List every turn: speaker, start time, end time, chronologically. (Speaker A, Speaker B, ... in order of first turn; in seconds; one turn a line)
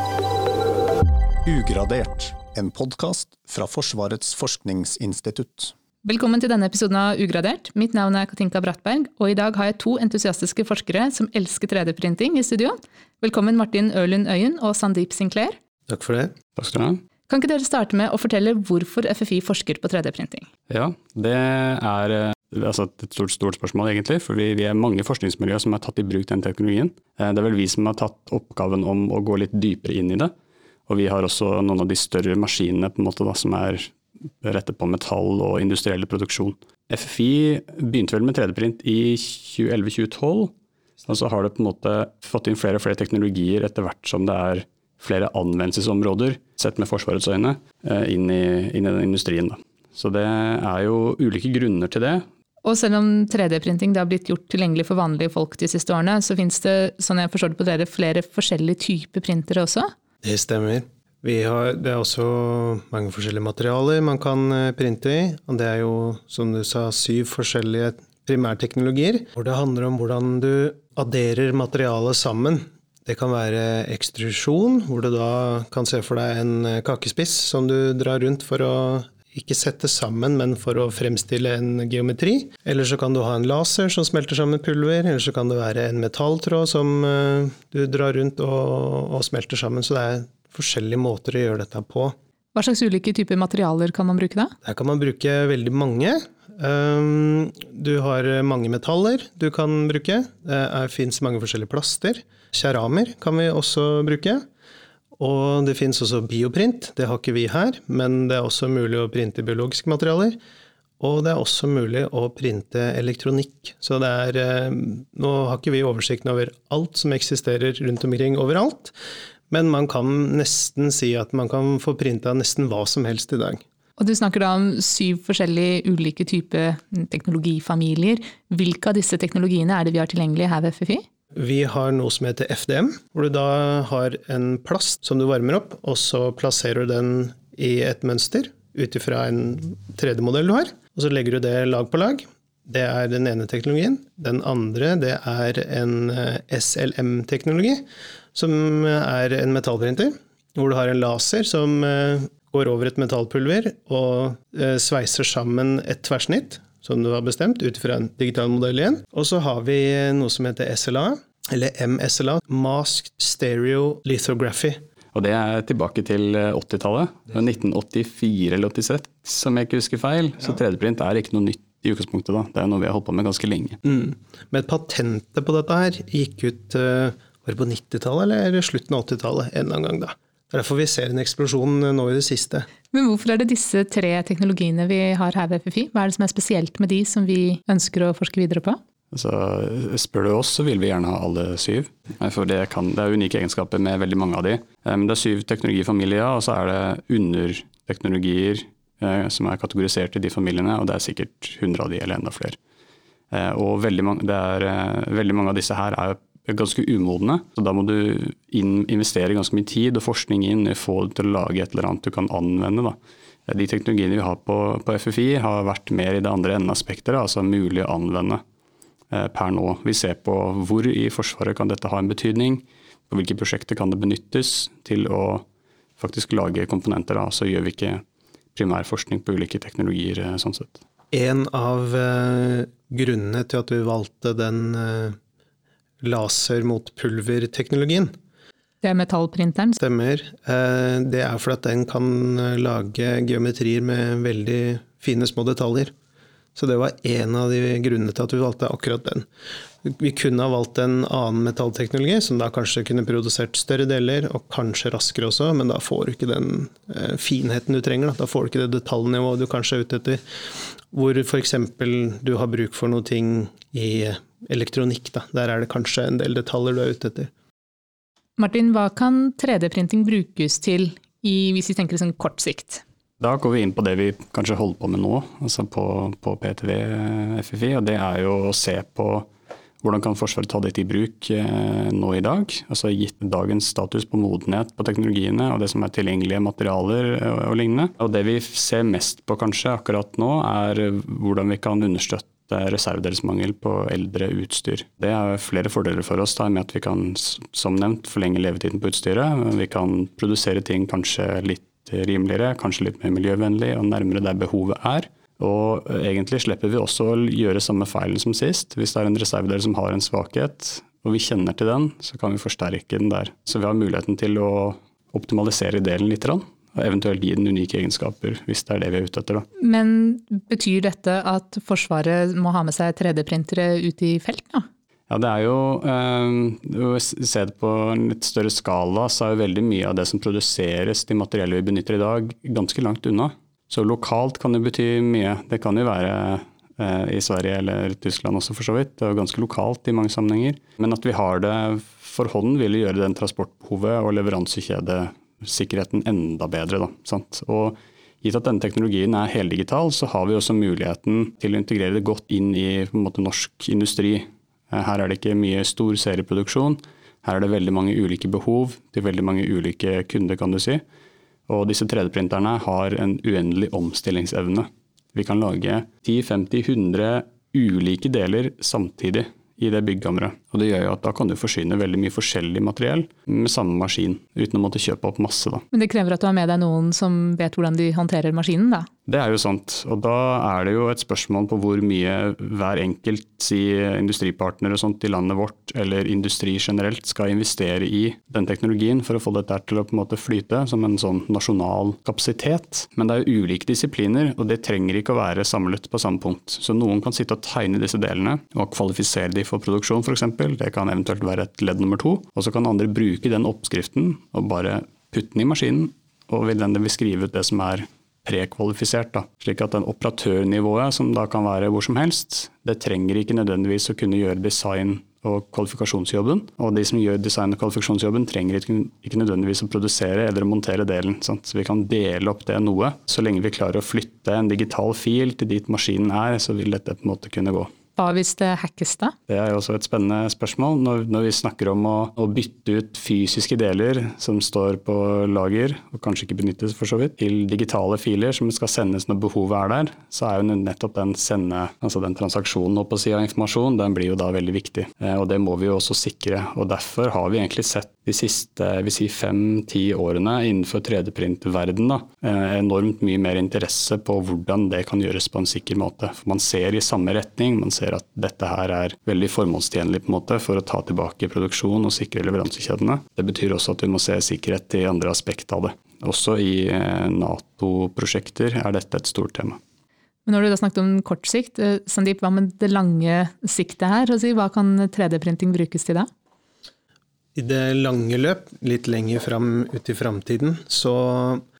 Speaker A: 1.4-5.7
Speaker B: 6.0-15.6
Speaker C: 15.9-16.3
Speaker D: 16.6-17.0
Speaker B: 17.3-20.5
Speaker D: 20.7-30.3
Speaker D: 30.9-40.5
Speaker D: 41.1-52.2
Speaker B: 52.6-59.9
Speaker C: 60.2-92.2
Speaker B: 92.5-94.5
Speaker C: 94.6-104.4
Speaker C: 105.2-110.4
Speaker C: 111.0-118.9
Speaker C: 119.5-123.6
Speaker B: 124.0-131.0
Speaker C: 131.3-164.8
Speaker D: 165.1-173.8
Speaker C: 173.8-182.7
Speaker B: 182.9-188.8
Speaker D: 189.1-202.6
Speaker D: 203.3-212.9
Speaker D: 213.5-218.4
Speaker D: 219.1-225.4
Speaker D: 226.0-228.0
Speaker D: 228.5-230.8
Speaker C: 231.1-235.2
Speaker C: 236.0-238.1
Speaker B: 238.8-239.8
Speaker C: 239.8-245.9
Speaker C: 246.5-249.2
Speaker C: 249.8-260.2
Speaker C: 260.9-267.3
Speaker B: 268.4-272.8
Speaker D: 273.2-279.3
Speaker D: 279.8-319.5
Speaker B: 319.6-324.7
Speaker D: 325.1-360.8
Speaker D: 361.5-375.6
Speaker B: 375.7-378.9
Speaker D: 379.1-427.7
Speaker B: 428.0-429.1
Speaker D: 429.3-469.6
Speaker B: 470.2-476.1
Speaker C: 477.3-481.4